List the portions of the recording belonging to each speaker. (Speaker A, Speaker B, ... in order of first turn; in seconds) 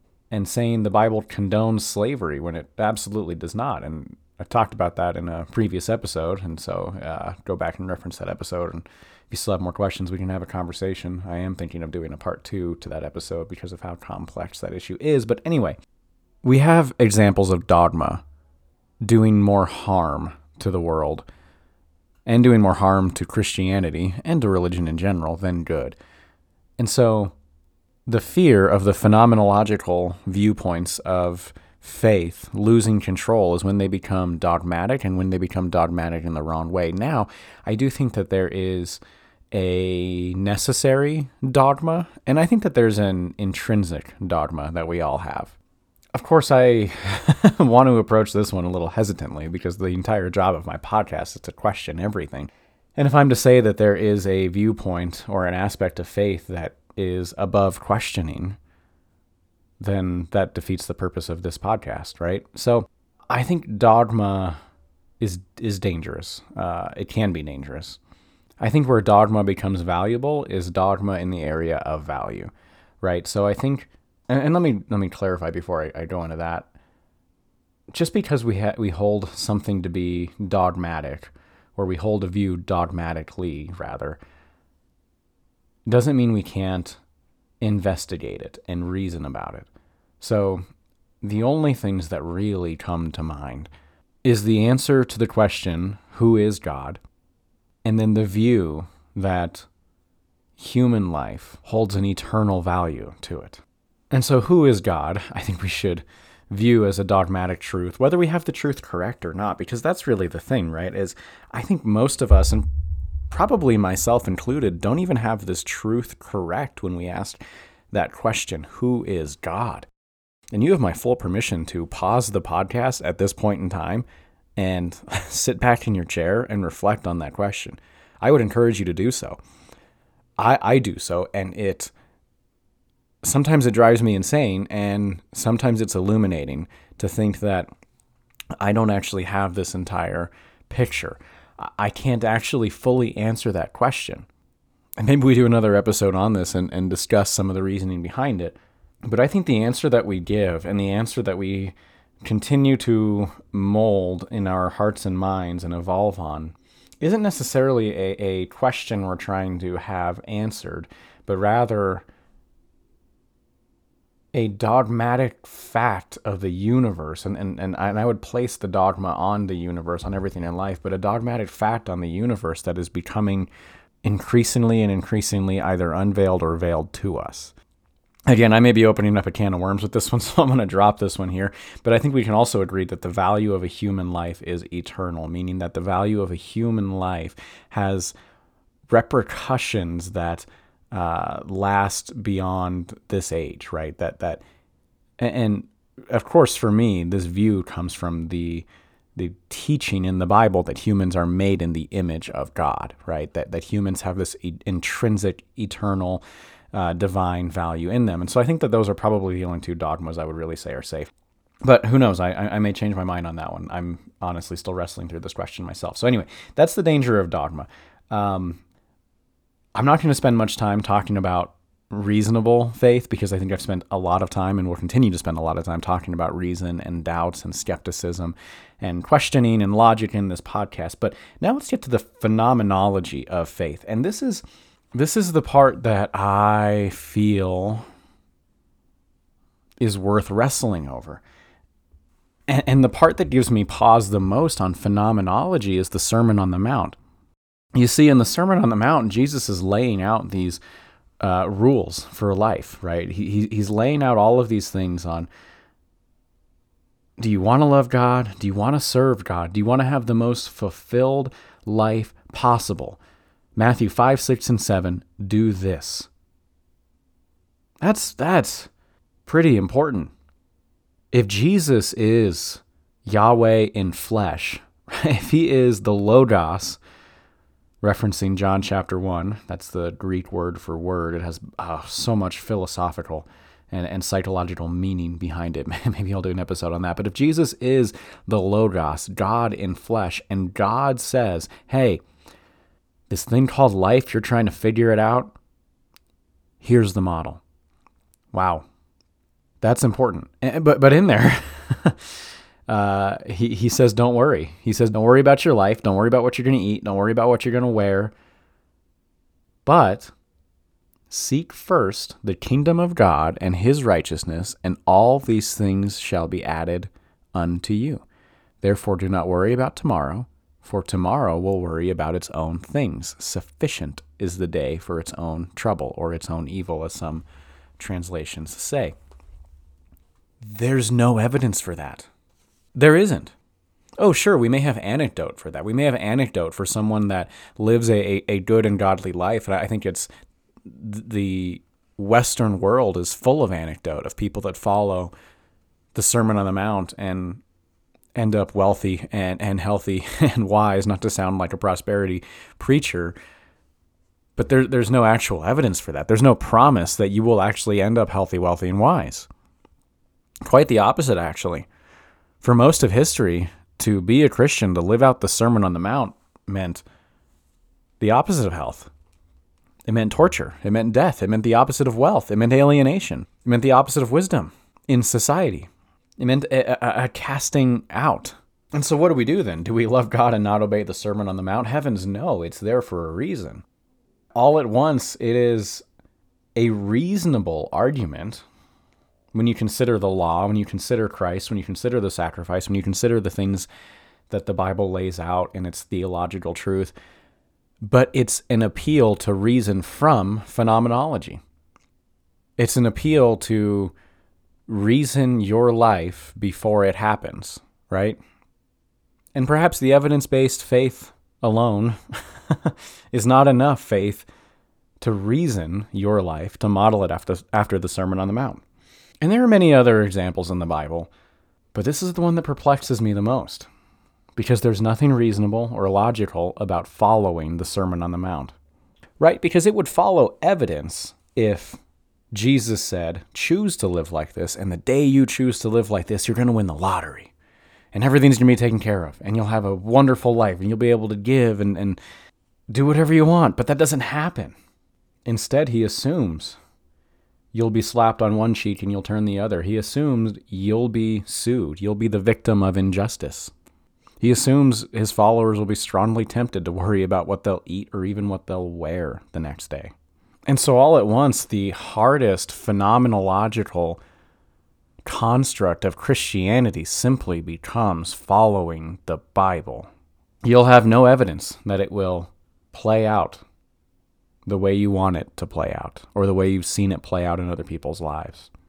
Speaker A: 0.3-15.8, 16.4-18.2, 19.0-21.2, 22.2-25.9, 26.8-27.3, 28.1-39.0, 39.5-45.5, 46.1-58.6, 59.8-64.6, 65.2-68.0, 68.6-76.7, 77.9-84.2, 85.8-87.0, 87.6-89.7, 90.2-90.6, 91.2-93.7, 94.2-97.0, 97.8-99.7, 100.6-112.7, 113.3-117.4, 117.9-119.9, 120.5-124.0, 124.6-129.4, 130.4-131.9, 133.2-137.7, 138.6-144.3, 145.0-162.1, 164.3-173.5, 174.0-177.5, 178.3-188.1, 188.9-194.4, 195.2-211.1, 211.6-218.6, 219.7-234.4, 234.9-237.8, 239.8-241.2, 242.5-247.0, 247.7-250.6, 251.2-255.3, 257.2-263.0, 263.6-266.1, 267.8-268.7, 269.2-270.1, 271.1-276.8, 277.8-292.0, 293.1-295.4, 296.6-297.4, 298.3-298.6, 299.6-308.1, 309.6-310.1, 311.1-318.0, 318.6-327.2, 327.8-328.9, 330.4-332.1, 332.7-333.3, 334.0-340.1, 340.6-345.1, 345.9-347.4, 348.1-353.1, 354.4-359.3, 360.4-361.7, 362.4-366.8, 368.0-368.9, 369.9-383.6, 384.4-385.8, 386.6-388.4, 389.3-393.7, 394.3-396.9, 397.8-401.4, 402.6-403.9, 404.7-408.2, 409.3-414.3, 415.0-418.6, 419.2-421.1, 421.7-423.7, 424.4-428.5, 429.2-431.8, 432.3-437.3, 437.9-442.0, 442.7-444.6, 445.2-446.6, 447.5-453.5, 454.2-459.9, 460.5-464.0, 465.0-469.9, 470.4-473.4, 474.4-478.5